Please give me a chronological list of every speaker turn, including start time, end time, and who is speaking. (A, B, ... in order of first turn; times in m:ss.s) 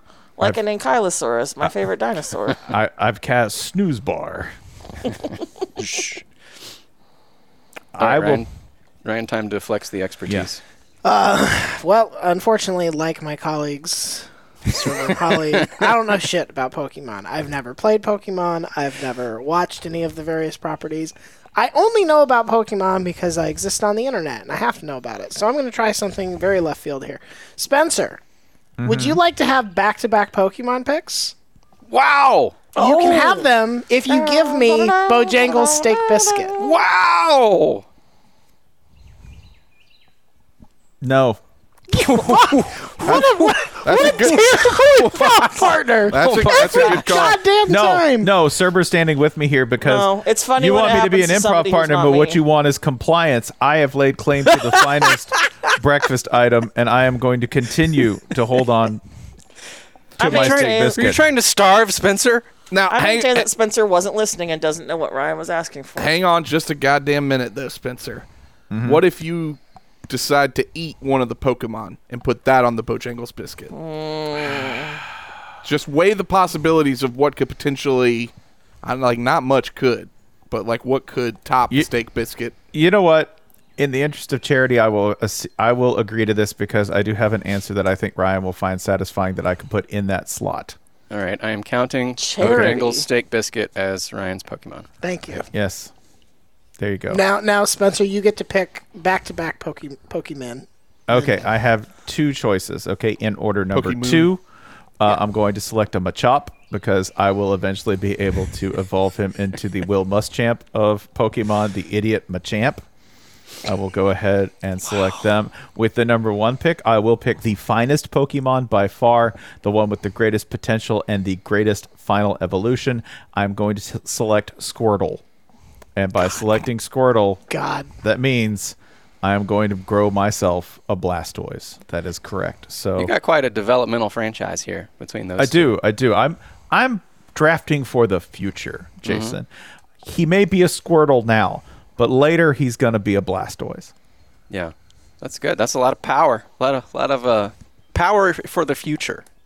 0:00.4-0:02.6 A
0:02.6-0:04.5 B
0:05.8-0:06.2 C
0:07.9-0:08.4 B
0:08.0-0:08.5 C
0:09.0-0:10.6 C
0:11.0-0:28.2 D
0:14.8-0:15.8 C
0:28.8-0:29.2 B
0:28.8-0:31.3 D
0:31.9-0:32.6 C
0:32.7-0:33.5 A
0:32.8-0:36.6 D
0:34.1-0:36.8 A
0:36.6-0:37.8 C
0:41.0-0:41.4 B
0:41.9-0:48.3 D
0:41.9-0:43.7 C
0:43.0-0:47.4 E
0:46.2-0:47.0 C
0:46.6-0:46.9 A
0:47.6-0:59.0 B
0:49.8-0:52.4 A
1:00.2-1:01.0 A
1:00.2-1:01.2 B
1:00.2-1:02.5 C
1:02.7-1:03.5 E
1:02.9-1:06.1 A
1:06.0-1:08.2 E
1:08.7-1:09.0 B
1:08.8-1:13.7 E
1:13.7-1:15.0 A
1:15.6-1:22.5 E
1:22.7-1:30.8 B
1:31.1-1:34.9 C
1:32.2-1:33.0 A
1:32.4-1:32.8 B
1:35.0-1:35.4 D
1:35.5-1:35.9 B
1:36.8-1:37.2 B
1:37.1-1:41.4 D
1:41.1-1:44.4 B
1:43.7-1:44.3 E
1:45.0-1:52.8 B
1:53.6-2:05.2 B
2:06.0-2:07.4 B
2:07.5-2:07.9 D
2:08.0-2:13.1 B
2:13.0-2:15.7 C
2:15.4-2:19.5 B
2:19.0-2:19.4 C
2:20.0-2:23.9 B
2:24.5-2:29.2 C